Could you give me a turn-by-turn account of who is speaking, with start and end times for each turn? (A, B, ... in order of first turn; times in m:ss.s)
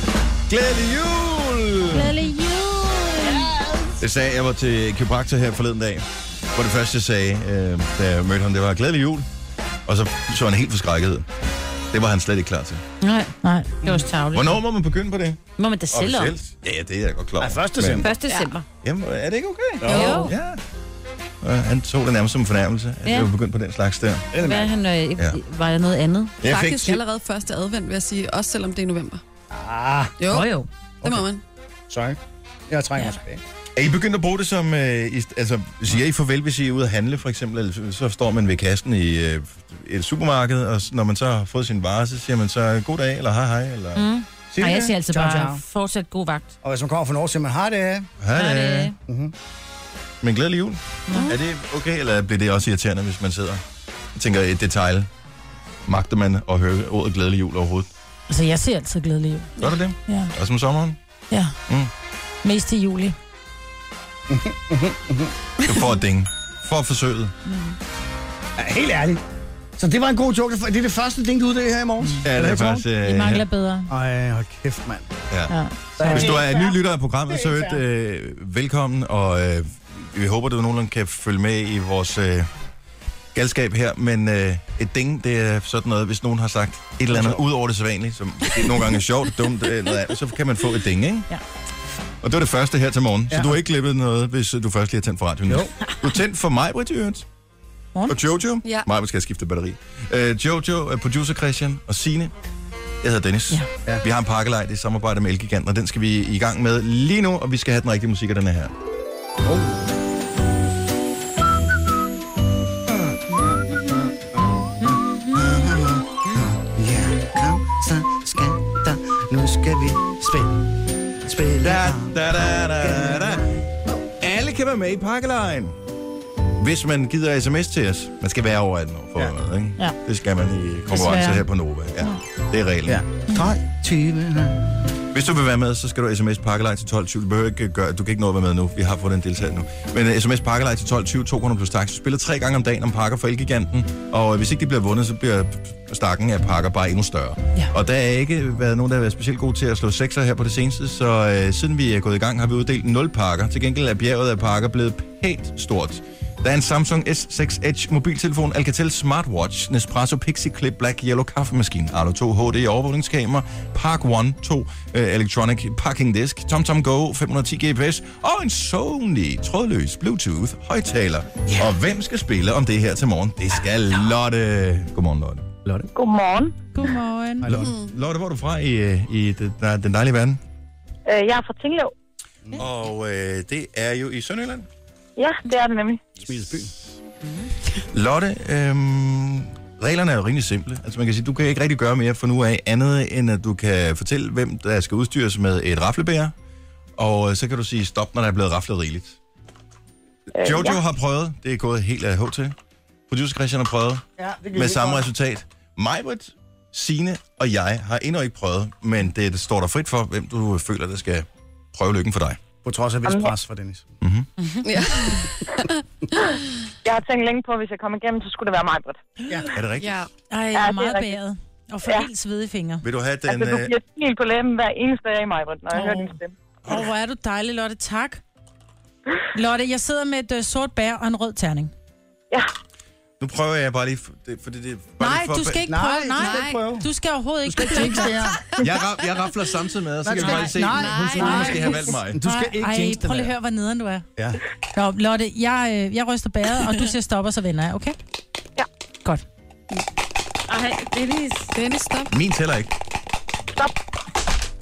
0:00.5-0:02.1 A
0:01.9-0:03.5 B
0:03.2-0:04.0 C
0:04.0-0:09.3 A
0:09.9-0:11.3 A
0:11.9-0:12.8 A
0:13.0-0:14.6 D
0:13.4-0:13.8 B
0:14.3-0:18.1 A
0:15.6-0:16.3 D
0:17.4-0:18.1 C
0:18.0-0:18.6 D
0:18.8-0:20.6 A
0:19.8-0:20.3 C
0:19.8-0:20.3 D
0:21.4-0:24.4 A
0:24.3-0:24.7 C
0:24.4-0:26.3 D
0:26.4-0:27.0 A
0:26.4-0:29.2 E
0:29.5-0:30.2 C
0:30.2-0:30.5 E
0:30.3-0:30.7 D
0:31.0-0:31.4 E
0:31.0-0:31.3 C
0:31.9-0:33.4 C
0:33.8-0:44.9 A
0:44.0-0:46.5 D
0:45.1-0:45.6 C
0:46.6-0:48.1 C
0:48.2-0:48.9 A
0:48.3-0:49.0 D
0:49.0-0:49.3 C
0:50.2-0:53.6 A
0:51.1-0:51.3 D
0:54.1-0:55.1 A
0:55.8-0:57.9 A
0:58.3-1:00.3 B
0:59.6-1:01.0 A
1:01.3-1:01.6 B
1:02.4-1:03.1 B
1:04.3-1:05.3 C
1:05.6-1:07.4 A
1:07.5-1:07.8 B
1:08.6-1:09.2 C
1:09.8-1:12.9 C
1:12.2-1:13.5 A
1:13.0-1:13.9 B
1:13.9-1:15.1 C
1:15.3-1:22.5 A
1:15.5-1:16.4 B
1:16.0-1:17.8 C
1:23.3-1:31.3 A
1:27.1-1:27.4 C
1:32.2-1:37.2 A
1:33.3-1:33.6 C
1:37.9-1:38.3 B
1:38.1-1:42.3 A
1:43.0-1:48.7 A
1:49.4-1:49.9 C
1:52.9-1:53.4 C
1:54.4-2:00.6 C
2:01.2-2:02.2 C
2:01.6-2:03.5 A
2:02.8-2:03.4 C
2:04.2-2:05.8 A
2:06.6-2:13.0 A
2:10.9-2:11.5 B
2:12.9-2:14.8 C
2:15.1-2:55.6 A
2:51.4-2:51.7 C
2:55.9-2:56.7 F
2:56.7-2:57.5 B
2:57.4-2:57.7 C
2:57.4-3:00.4 A
2:57.6-2:57.9 E
3:01.1-3:01.9 F
3:02.6-3:04.7 A
3:05.2-3:06.0 F
3:06.2-3:06.7 C
3:07.2-3:07.5 D
3:07.9-3:16.3 A
3:17.0-3:19.2 A
3:20.3-3:22.5 A
3:20.4-3:20.8 F
3:23.1-3:24.0 A
3:24.2-3:25.1 C
3:24.5-3:32.4 A
3:32.6-3:33.8 C
3:33.0-3:33.3 F
3:34.0-3:34.3 A
3:34.6-3:35.7 E
3:36.8-3:39.0 F
3:39.5-3:40.0 A
3:39.8-3:40.1 E
3:40.3-3:42.8 B
3:40.5-3:41.2 F
3:42.8-3:43.7 A
3:43.2-3:46.3 F
3:45.7-3:46.1 B
3:46.6-3:48.2 B
3:49.3-3:51.7 B
3:53.2-3:55.6 A
3:55.0-3:58.3 B
3:55.7-3:56.9 C
3:56.2-3:56.7 E
3:57.4-3:58.6 C
3:58.6-4:02.2 A
4:00.0-4:03.3 C
4:00.3-4:01.9 E
4:01.2-4:01.6 B
4:02.2-4:04.0 B
4:04.8-4:08.0 B
4:10.5-4:11.5 D
4:11.5-4:12.1 E
4:12.1-4:12.7 A